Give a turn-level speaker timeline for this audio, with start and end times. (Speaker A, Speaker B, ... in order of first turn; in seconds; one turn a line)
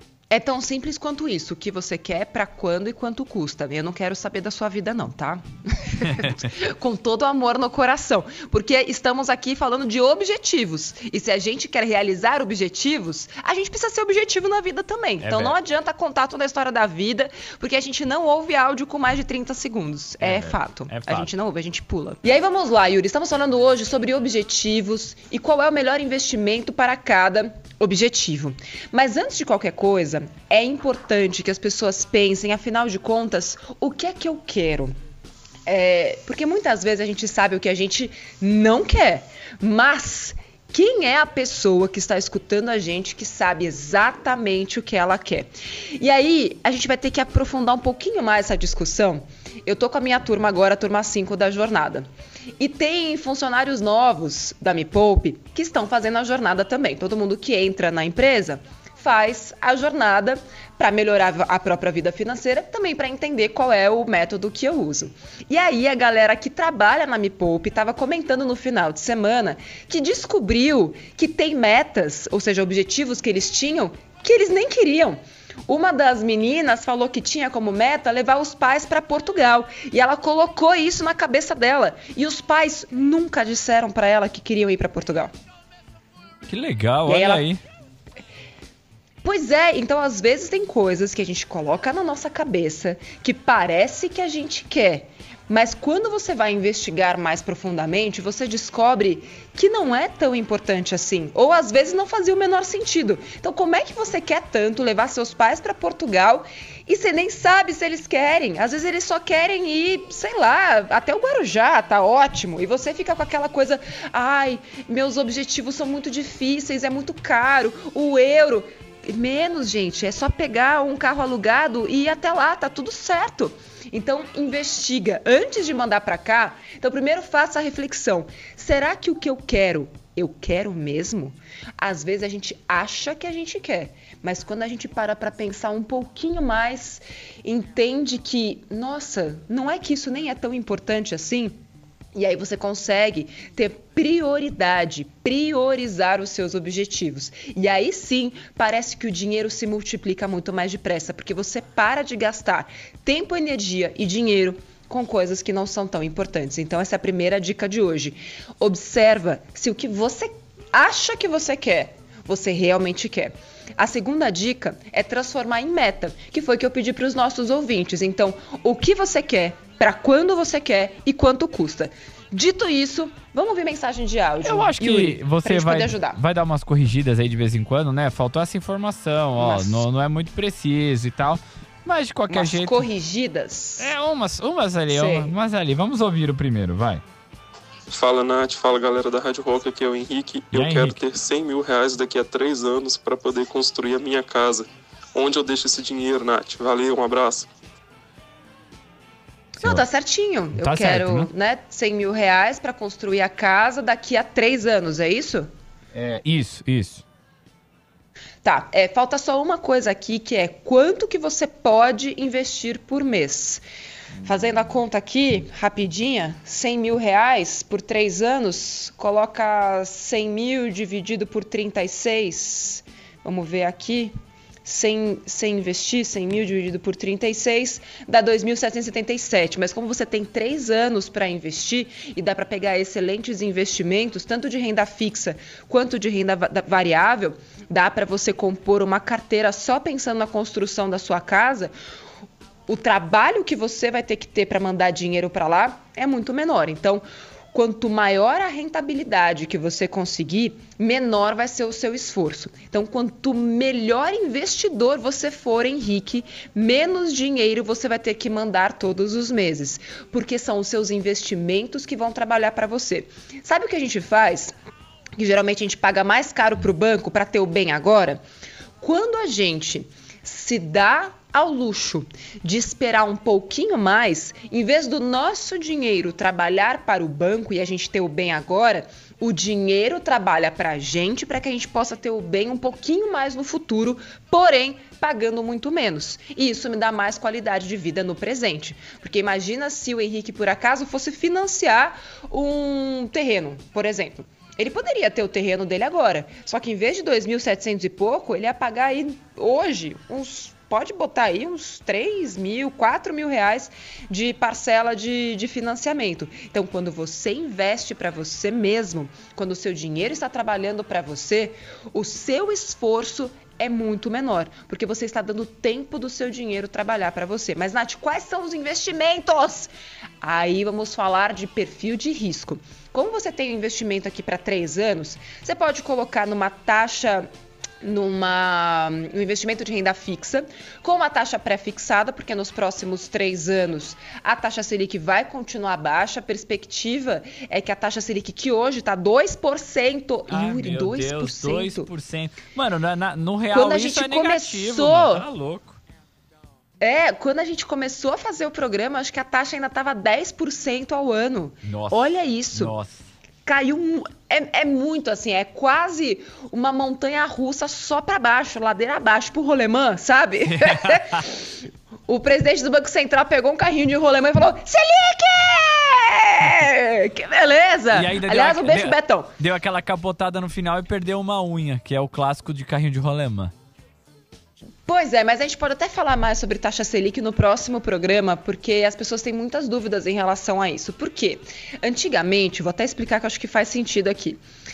Speaker A: 0.3-34.9
Speaker B: 15.2-15.6
Speaker B: 20.2-21.3
Speaker A: 35.7-52.1
Speaker A: 52.6-85.3
Speaker B: 86.5-87.6
Speaker A: 87.1-87.5
Speaker A: 89.2-141.6
Speaker A: 142.1-176.2
Speaker B: 174.4-182.9
Speaker A: 179.4-179.9
Speaker A: 182.3-183.9
Speaker B: 183.8-187.0
Speaker A: 184.9-185.3
Speaker C: 187.9-197.5
Speaker B: 190.5-191.0
Speaker A: 199.6-205.5
Speaker B: 200.6-201.3
Speaker B: 205.9-207.0
Speaker A: 208.4-213.6
Speaker A: 214.2-241.7
Speaker A: 242.7-264.5
Speaker A: 265.2-268.2
Speaker A: 268.8-327.3
Speaker A: 327.8-341.9
Speaker B: 340.3-345.8
Speaker A: 343.5-345.2
Speaker A: 346.8-352.7
Speaker B: 351.6-352.9
Speaker A: 353.5-361.3
Speaker B: 360.5-361.2
Speaker A: 362.1-369.3
Speaker B: 367.9-373.5
Speaker A: 374.9-384.4